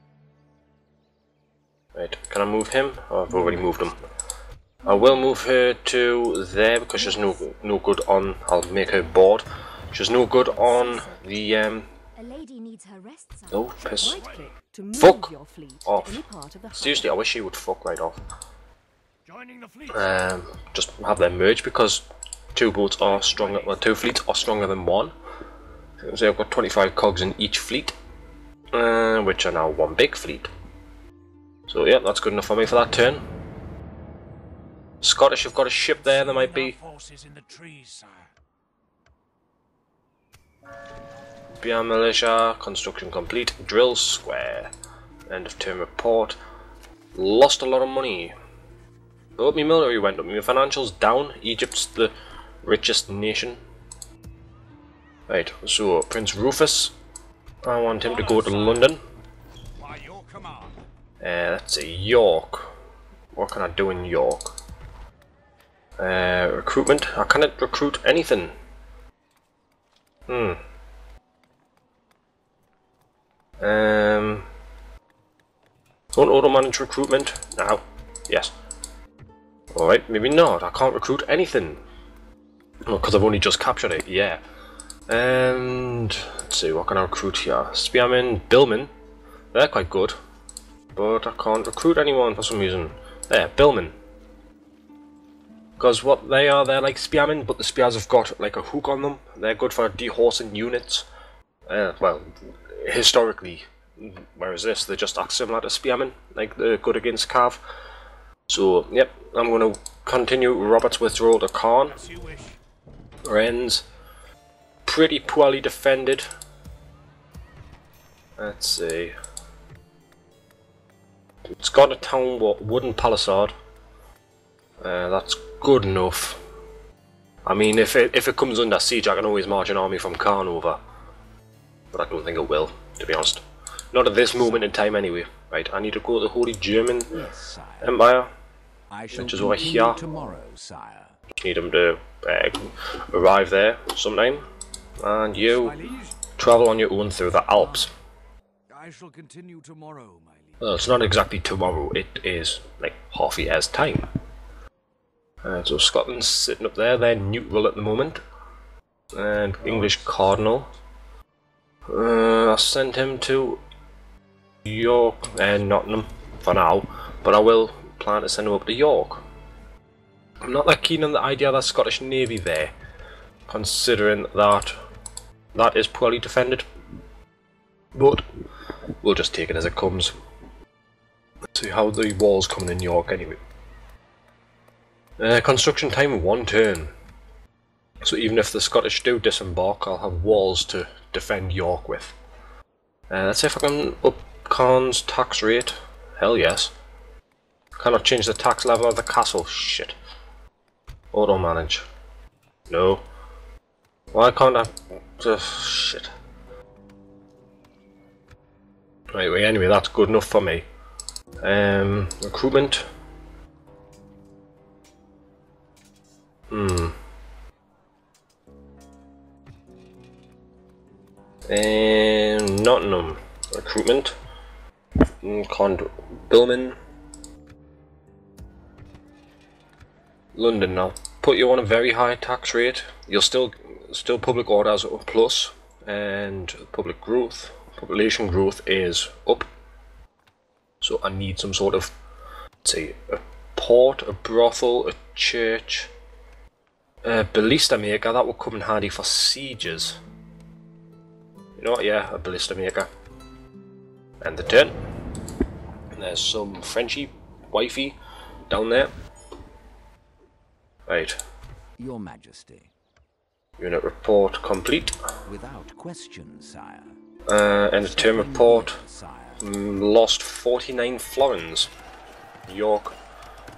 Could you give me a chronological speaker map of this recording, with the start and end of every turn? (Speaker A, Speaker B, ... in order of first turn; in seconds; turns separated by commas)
Speaker A: 2.0-4.0, Speaker A: 4.8-11.9, Speaker B: 12.4-13.3, Speaker A: 13.5-14.4, Speaker B: 14.6-16.7, Speaker A: 14.9-18.2, Speaker C: 19.3-19.9, Speaker A: 19.9-22.0, Speaker A: 22.6-25.1, Speaker C: 23.3-23.6, Speaker A: 26.0-27.9, Speaker A: 28.7-30.5, Speaker A: 31.7-33.2, Speaker A: 35.0-36.8, Speaker C: 36.2-38.3, Speaker A: 41.6-44.7, Speaker A: 45.3-46.4, Speaker A: 47.1-48.3, Speaker A: 49.4-53.6, Speaker A: 55.3-57.0, Speaker A: 57.6-59.0, Speaker C: 58.0-58.9, Speaker D: 59.8-60.8, Speaker C: 60.0-60.4, Speaker A: 61.2-62.7, Speaker A: 63.3-64.6, Speaker A: 66.0-68.5, Speaker A: 70.3-70.6, Speaker A: 73.6-74.5, Speaker A: 76.1-78.5, Speaker A: 79.7-81.8, Speaker A: 82.9-84.4, Speaker A: 85.1-88.9, Speaker A: 89.5-90.2, Speaker A: 91.0-93.9, Speaker A: 95.8-101.1, Speaker A: 101.7-107.6, Speaker A: 108.5-112.1, Speaker C: 112.1-112.6, Speaker A: 113.2-113.8, Speaker A: 114.9-116.3, Speaker A: 118.4-119.2, Speaker A: 121.5-123.5, Speaker A: 124.8-126.4, Speaker A: 127.5-130.8, Speaker A: 131.9-137.2, Speaker D: 137.2-137.9, Speaker A: 137.8-138.3, Speaker D: 138.9-141.1, Speaker A: 139.1-140.1, Speaker A: 141.4-144.5, Speaker A: 145.0-145.8, Speaker D: 145.6-146.2, Speaker A: 146.4-147.9, Speaker D: 148.7-150.6, Speaker A: 150.6-154.1, Speaker A: 155.4-158.2, Speaker A: 159.1-160.7, Speaker A: 161.9-163.6, Speaker A: 164.7-169.2, Speaker A: 170.4-172.7, Speaker A: 173.5-174.8, Speaker A: 175.5-176.7, Speaker A: 177.9-178.2, Speaker A: 179.0-180.1, Speaker A: 181.5-183.4, Speaker A: 185.2-186.9, Speaker A: 188.0-192.2, Speaker A: 193.1-196.7, Speaker A: 197.8-200.0, Speaker A: 201.1-201.8, Speaker A: 202.7-203.0, Speaker A: 204.1-206.1, Speaker A: 209.1-210.7, Speaker A: 211.4-212.8, Speaker A: 216.5-216.9, Speaker A: 221.5-224.2, Speaker A: 225.1-226.8, Speaker A: 230.3-239.5, Speaker A: 240.8-241.9, Speaker A: 242.6-245.9, Speaker A: 247.0-250.0, Speaker A: 251.6-252.9, Speaker A: 254.2-254.8, Speaker A: 255.9-258.0, Speaker A: 258.5-258.9, Speaker A: 260.9-261.2, Speaker D: 261.8-262.7, Speaker A: 263.6-265.0, Speaker D: 265.3-266.9, Speaker A: 267.3-268.8, Speaker D: 267.8-269.4, Speaker A: 269.4-271.7, Speaker A: 272.5-272.9